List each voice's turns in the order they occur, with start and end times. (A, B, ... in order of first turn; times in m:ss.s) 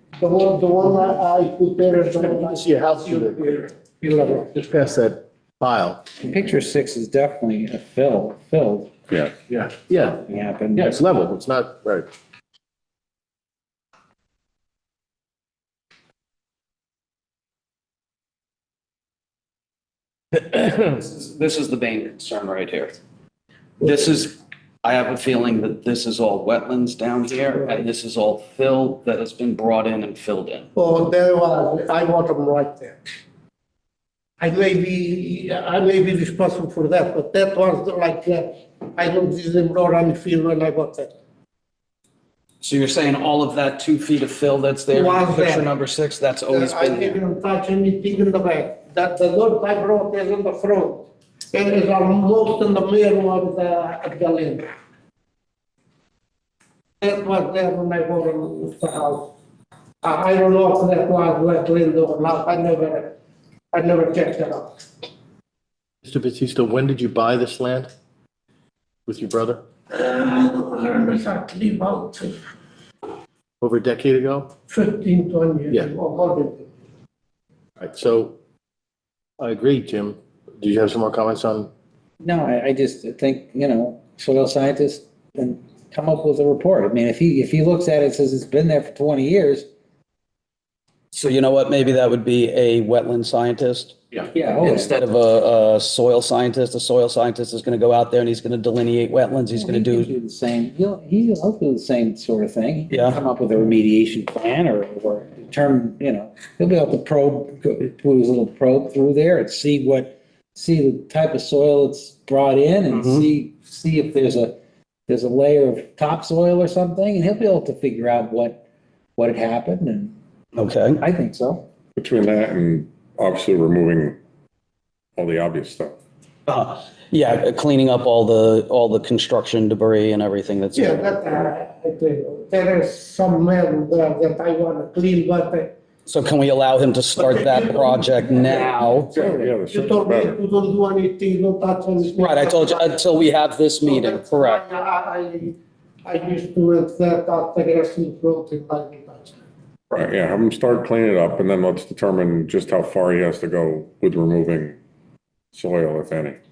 0:00.2-0:04.6 A
0:02.3-0:03.7 B
0:04.4-0:06.0 B
0:06.2-0:08.9 C
0:09.4-0:10.2 B
0:10.2-0:11.0 C
0:10.7-0:12.1 B
0:20.4-0:23.0 D
0:23.8-0:30.7 D
0:30.7-0:33.0 A
0:34.4-0:41.1 A
0:42.6-0:47.2 D
0:44.9-0:45.7 A
0:46.5-0:54.6 A
0:57.0-0:59.3 A
1:00.0-1:03.2 A
1:03.7-1:04.8 A
1:06.0-1:07.9 B
1:09.1-1:09.6 B
1:09.9-1:12.5 A
1:13.6-1:14.5 B
1:14.7-1:16.7 A
1:17.8-1:18.4 B
1:19.4-1:21.7 B
1:22.2-1:29.7 C
1:31.1-1:34.0 D
1:34.3-1:34.9 C
1:34.6-1:40.1 D
1:39.5-1:54.6 C
1:42.9-1:43.2 D
1:52.9-1:53.2 D
1:55.1-1:58.6 C
1:59.2-2:00.1 C
2:00.5-2:01.0 D
2:01.0-2:01.6 C
2:02.0-2:04.2 E
2:05.2-2:06.0 E
2:06.5-2:11.4 D
2:10.7-2:15.8 A
2:16.0-2:19.1 D
2:17.2-2:23.2 A
2:19.1-2:20.4 E
2:22.1-2:24.6 D
2:23.8-2:29.4 A
2:29.9-2:34.8 E
2:35.5-2:36.4 E